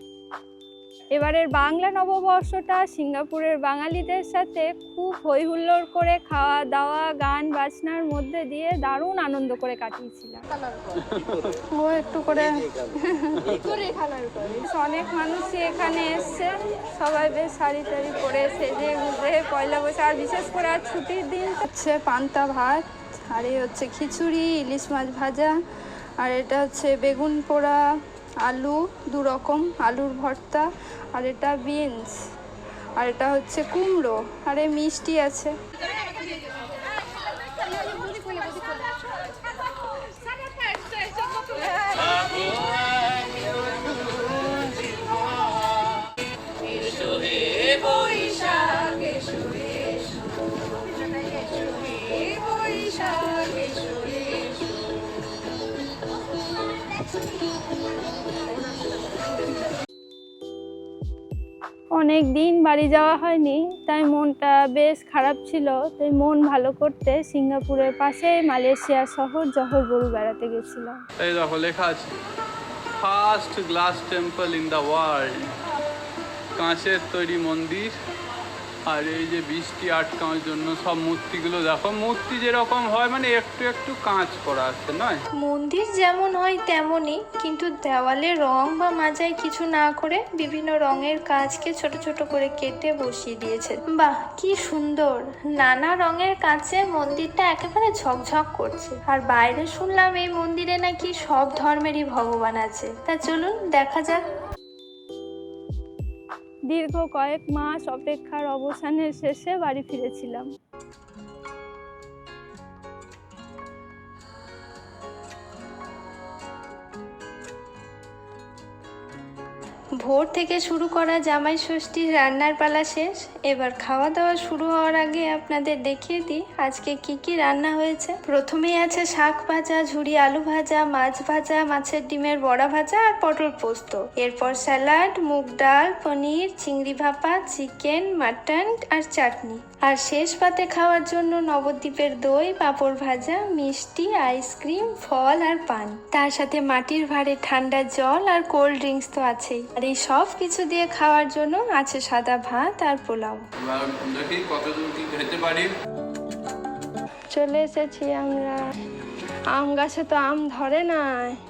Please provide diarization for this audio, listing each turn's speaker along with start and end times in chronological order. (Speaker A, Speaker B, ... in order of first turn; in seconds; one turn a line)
Speaker A: 1.1-10.4
Speaker B: 11.0-11.5
Speaker A: 11.7-25.6
Speaker A: 26.2-27.8
Speaker A: 28.4-32.2
Speaker A: 33.0-35.5
Speaker A: 41.4-42.3
Speaker A: 46.9-49.1
Speaker A: 61.9-71.0
Speaker B: 71.2-72.1
Speaker B: 73.0-75.4
Speaker B: 76.5-77.9
Speaker B: 78.9-85.2
Speaker C: 85.4-104.3
Speaker A: 106.7-110.5
Speaker C: 120.0-153.4
Speaker B: 153.6-155.7
Speaker A: 157.3-158.6
Speaker A: 159.5-161.3